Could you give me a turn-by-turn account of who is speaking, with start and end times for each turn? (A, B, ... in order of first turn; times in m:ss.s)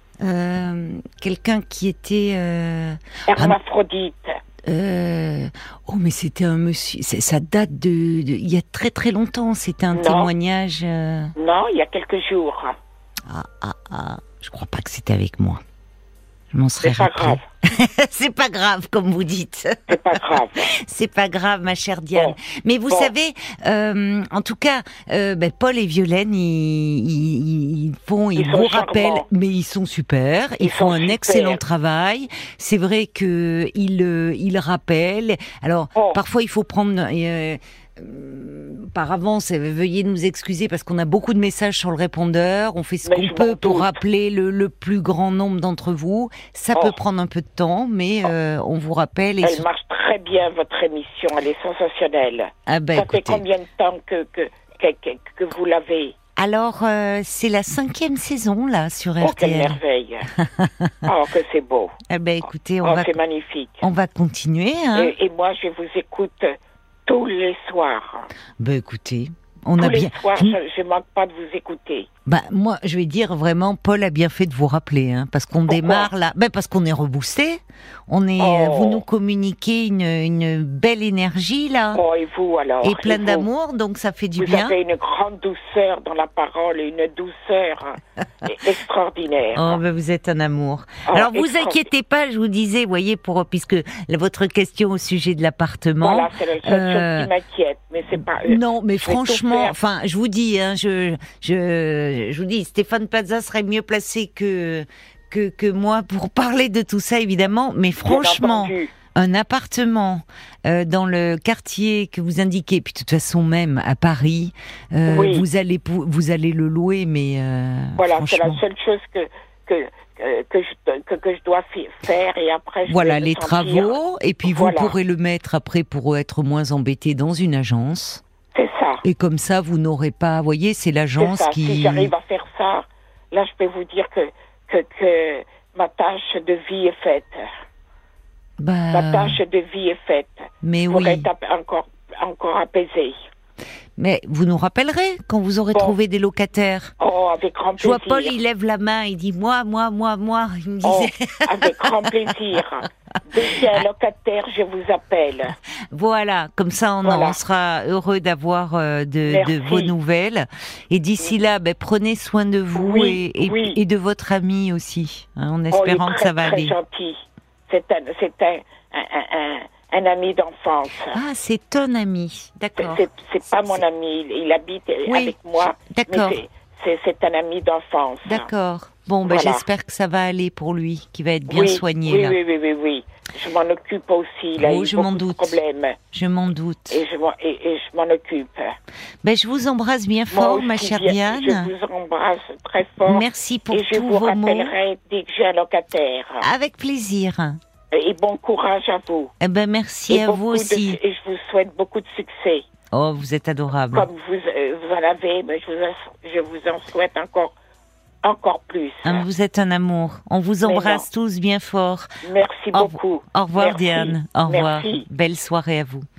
0:00.2-0:03.6 A
0:03.3-0:04.3 B
0:04.7-0:11.3 A
0:09.9-0:10.3 B
0:11.4-0:12.8 B
0:13.3-0:15.6 A
0:16.5-0:49.6 A
0:16.8-0:17.4 B
0:19.9-0:20.7 B
0:22.1-0:23.1 B
0:28.4-0:29.2 B
0:30.6-0:31.6 B
0:43.0-0:44.0 B
0:49.4-0:56.2 B
0:52.7-0:53.4 A
0:56.4-0:59.8 A
0:59.2-1:00.3 B
1:00.4-1:01.0 A
1:01.0-1:01.9 B
1:02.1-1:03.1 A
1:02.8-1:03.8 B
1:03.8-1:05.1 A
1:04.9-1:06.5 B
1:07.0-1:08.3 B
1:08.6-1:10.6 A
1:09.8-1:12.1 B
1:12.2-1:22.0 A
1:15.7-1:16.1 B
1:18.4-1:19.0 B
1:21.9-1:23.5 B
1:22.8-1:24.8 A
1:24.4-1:29.8 B
1:29.5-1:37.3 A
1:31.0-1:31.8 B
1:36.0-1:39.8 B
1:38.4-1:58.6 A
1:48.0-1:48.9 B
1:55.0-1:55.4 B
1:58.0-2:04.9 B
2:02.8-2:08.2 A
2:08.5-2:09.0 B
2:09.0-2:12.1 A
2:11.2-2:17.4 B
2:18.6-2:19.4 A
2:18.9-2:23.2 B
2:20.6-2:21.3 A
2:24.0-2:26.9 A
2:27.0-2:28.3 B
2:27.8-2:32.3 A
2:30.8-2:35.5 B
2:35.9-2:46.7 A
2:37.0-2:37.4 B
2:39.2-2:39.9 B
2:42.7-2:43.8 B
2:45.7-2:51.2 B
2:51.1-2:53.0 A
2:52.8-2:58.5 B
2:55.0-2:55.3 A
2:55.9-2:56.4 A
2:58.2-3:02.4 A
2:59.2-2:59.6 B
3:01.5-3:06.0 B
3:04.6-3:05.6 A
3:06.1-3:07.0 A
3:06.9-3:08.7 B
3:09.2-3:11.7 A
3:10.3-3:16.4 B
3:13.0-3:14.7 A
3:16.4-3:17.6 A
3:17.9-3:19.3 B
3:19.4-3:21.0 A
3:20.1-3:22.6 B
3:22.9-3:24.1 A
3:23.9-3:27.5 B
3:28.2-3:29.2 B
3:29.0-3:32.1 A
3:30.6-3:31.0 B
3:32.2-3:35.0 B
3:32.7-3:36.0 A